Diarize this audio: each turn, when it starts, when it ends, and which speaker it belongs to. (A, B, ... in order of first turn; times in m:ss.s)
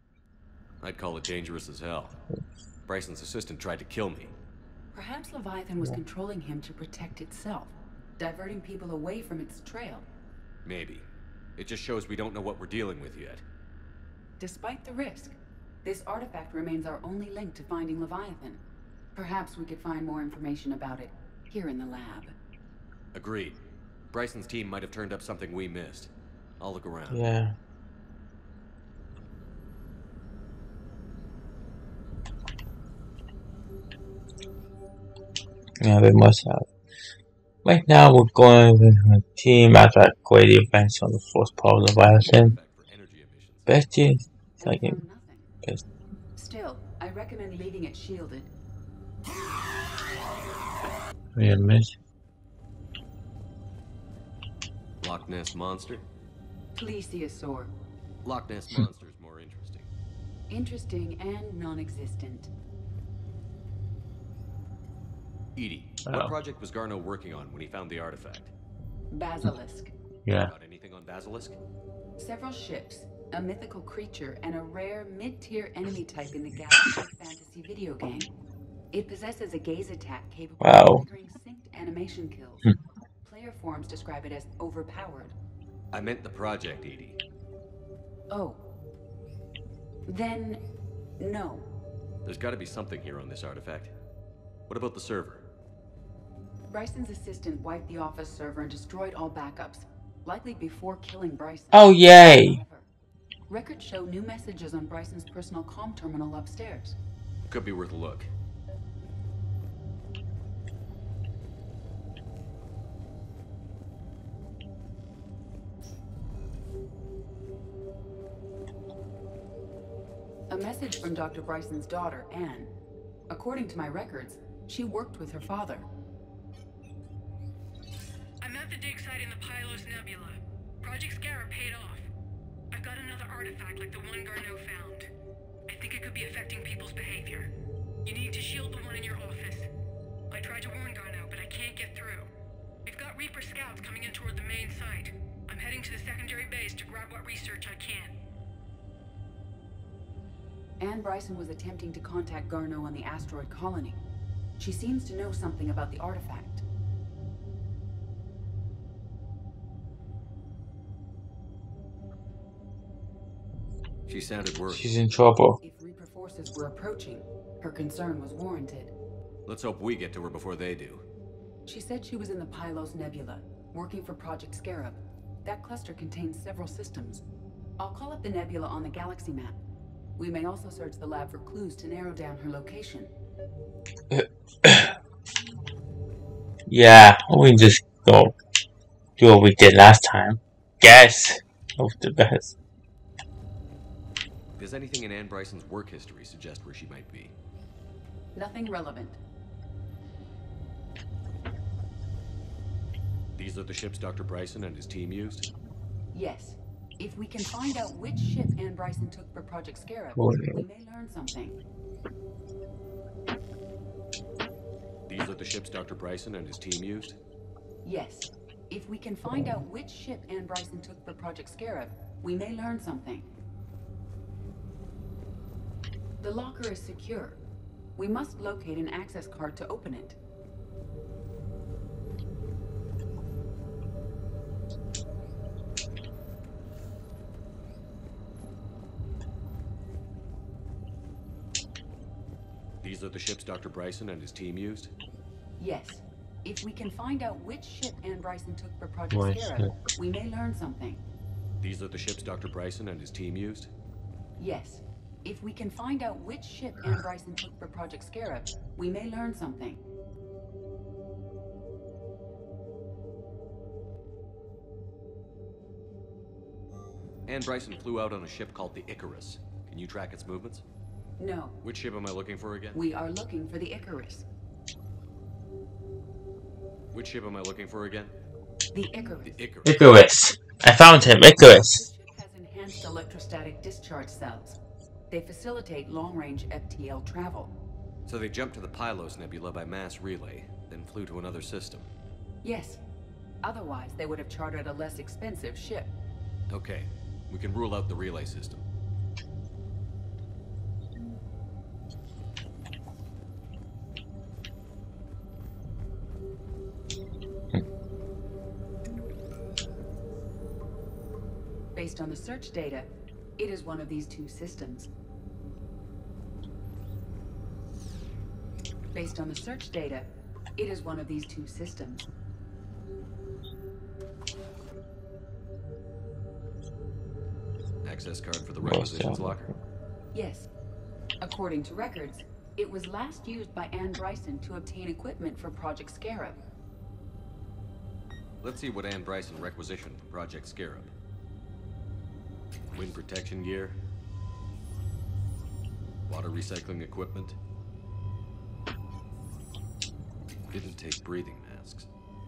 0:00.8-0:02.2 A
0:02.9-0:04.3 A
0:04.9-0:10.1 B
0:10.6-0:11.1 A
0:11.6-0:13.4 A
0:14.4-0:18.6 B
0:19.2-0:22.3 B
0:23.2-0:23.6 A
0:24.1-0:27.2 A
0:27.1-0:27.6 C
0:35.8-0:36.7 C
0:37.6-0:42.6 C
0:42.1-0:43.7 A
0:43.7-0:45.0 C
0:44.6-0:45.5 B
0:46.4-0:48.5 B
0:51.4-0:52.0 C
0:55.0-0:56.0 A
0:56.8-0:57.7 B
0:58.2-0:59.9 A
1:00.5-1:02.5 B
1:05.6-1:08.5 A
1:06.1-1:06.4 C
1:09.1-1:09.9 B
1:10.3-1:10.5 C
1:10.4-1:11.6 A
1:12.2-1:18.3 B
1:18.9-1:25.4 B
1:20.6-1:21.0 C
1:25.9-1:27.2 A
1:28.3-1:28.6 B
1:30.1-1:30.6 B
1:31.2-1:31.7 B
1:32.3-1:33.9 A
1:34.7-1:35.5 A
1:36.7-1:42.9 B
1:41.7-1:42.6 C
1:43.5-1:47.0 B
1:47.5-1:48.3 A
2:00.5-2:02.7 B
2:03.3-2:05.9 B
2:08.4-2:12.1 D
2:12.7-2:15.1 D
2:15.7-2:17.5 D
2:18.0-2:19.7 D
2:20.3-2:22.3 D
2:22.9-2:28.1 D
2:30.8-2:34.0 B
2:34.6-2:36.6 B
2:44.1-2:44.9 A
2:44.7-2:45.6 C
2:45.6-2:48.9 B
2:49.5-2:51.0 A
2:51.7-2:57.2 B
2:57.8-2:59.6 B
3:00.2-3:03.1 B
3:04.1-3:05.0 C
3:06.7-3:08.4 C
3:09.2-3:12.6 C
3:14.6-3:17.3 A
3:18.4-3:19.2 B
3:23.4-3:25.5 A
3:26.1-3:31.6 B
3:30.2-3:30.6 C
3:35.1-3:37.2 A
3:37.8-3:43.2 B
3:46.2-3:47.4 B
3:48.0-3:50.2 B
4:02.8-4:04.9 A
4:05.6-4:11.0 B
4:09.1-4:09.8 C
4:11.6-4:13.7 A
4:14.4-4:19.8 B
4:27.3-4:30.6 A
4:31.2-4:31.6 B
4:31.6-4:32.8 A
4:32.7-4:34.3 B
4:36.9-4:38.1 A
4:38.7-4:39.4 B
4:39.3-4:39.8 A
4:39.6-4:41.8 C
4:41.3-4:44.6 B
4:45.1-4:47.5 B
4:48.1-4:51.9 A
4:52.4-4:52.8 B
4:53.4-4:55.9 B
4:56.5-4:58.6 A
5:11.8-5:14.9 B
5:18.9-5:22.1 B
5:27.8-5:29.5 A
5:28.6-5:29.5 C
5:30.1-5:30.5 B
5:31.2-5:36.4 B
5:38.4-5:40.9 A
5:42.7-5:43.8 A
5:46.1-5:47.4 A
5:50.5-5:51.9 A